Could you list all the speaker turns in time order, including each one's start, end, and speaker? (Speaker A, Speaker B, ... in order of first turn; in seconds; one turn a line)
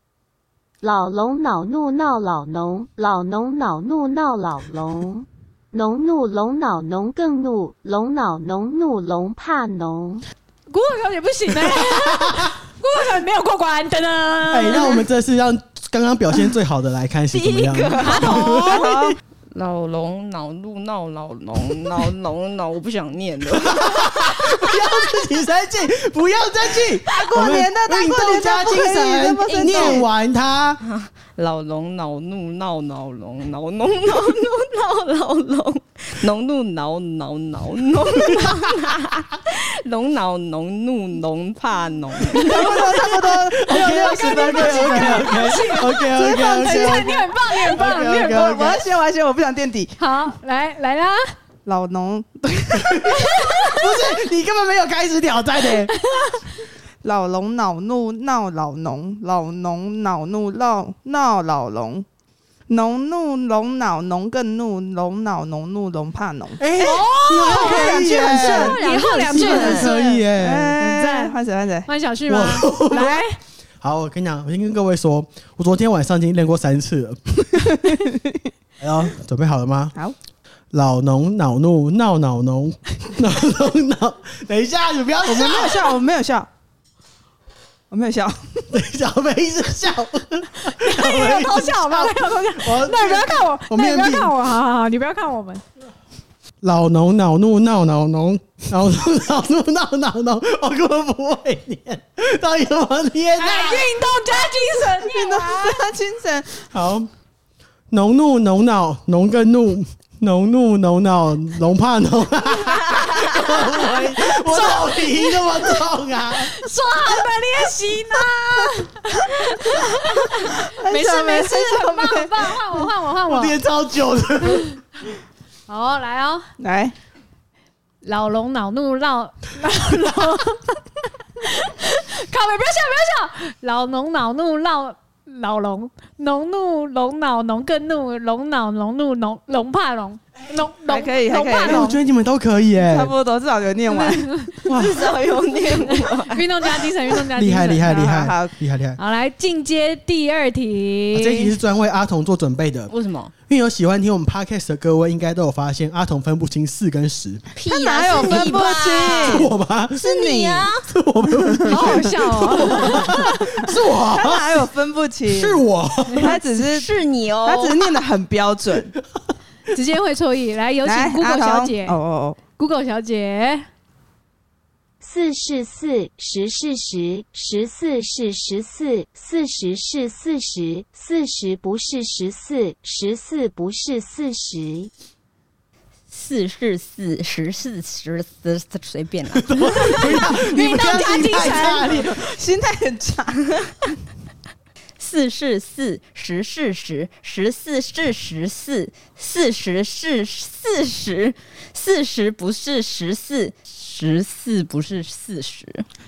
Speaker A: 0.8-10.2
Speaker B: 10.7-14.9
Speaker C: 11.8-12.1
Speaker C: 14.5-18.9
Speaker D: 17.3-24.8
Speaker B: 18.0-18.8
Speaker E: 18.7-19.1
Speaker C: 23.6-30.8
Speaker E: 27.2-30.1
Speaker D: 29.8-30.0
Speaker D: 30.8-43.0
Speaker E: 42.2-45.3
Speaker C: 43.5-48.8
Speaker B: 43.7-48.8
Speaker E: 48.4-50.0
Speaker B: 50.0-51.3
Speaker E: 51.6-52.8
Speaker C: 52.8-55.9
Speaker B: 56.0-56.3
Speaker E: 57.0-62.0
Speaker E: 62.7-66.6
Speaker C: 66.6-70.8
Speaker B: 66.8-70.2
Speaker E: 67.5-68.7
Speaker D: 68.4-69.9
Speaker E: 70.4-71.9
Speaker B: 70.8-73.4
Speaker C: 72.3-73.2
Speaker C: 73.8-77.3
Speaker E: 77.8-78.2
Speaker C: 78.8-79.9
Speaker C: 80.7-85.9
Speaker E: 85.2-86.5
Speaker E: 87.9-88.7
Speaker C: 88.7-94.3
Speaker B: 90.7-95.6
Speaker C: 96.6-103.9
Speaker B: 103.4-105.8
Speaker E: 104.8-106.7
Speaker C: 106.7-107.1
Speaker C: 107.9-116.5
Speaker B: 114.5-115.8
Speaker B: 116.4-123.6
Speaker E: 120.6-122.8
Speaker C: 123.3-124.8
Speaker B: 124.5-124.8
Speaker B: 125.7-126.5
Speaker E: 126.6-126.9
Speaker B: 128.0-130.8
Speaker B: 131.4-142.0
Speaker E: 140.9-141.8
Speaker C: 141.6-143.1
Speaker E: 142.8-144.5
Speaker B: 143.9-144.5
Speaker C: 144.6-145.1
Speaker D: 144.7-146.5
Speaker B: 146.3-148.1
Speaker C: 147.3-149.0
Speaker E: 147.9-148.5
Speaker B: 149.0-151.5
Speaker C: 151.1-152.9
Speaker D: 152.9-153.3
Speaker C: 153.5-157.4
Speaker D: 157.5-160.8
Speaker E: 157.7-159.4
Speaker C: 159.2-160.2
Speaker E: 160.2-160.7
Speaker C: 160.9-163.1
Speaker E: 161.7-162.1
Speaker B: 161.7-163.4
Speaker C: 163.7-164.6
Speaker E: 164.1-165.6
Speaker C: 165.3-166.3
Speaker E: 166.1-166.9
Speaker D: 166.2-168.0
Speaker E: 167.4-168.9
Speaker B: 169.7-173.6
Speaker E: 170.8-172.4
Speaker A: 175.0-184.9
Speaker D: 186.1-190.2
Speaker C: 189.3-192.1
Speaker B: 190.5-191.9
Speaker E: 191.2-193.4
Speaker D: 195.0-205.9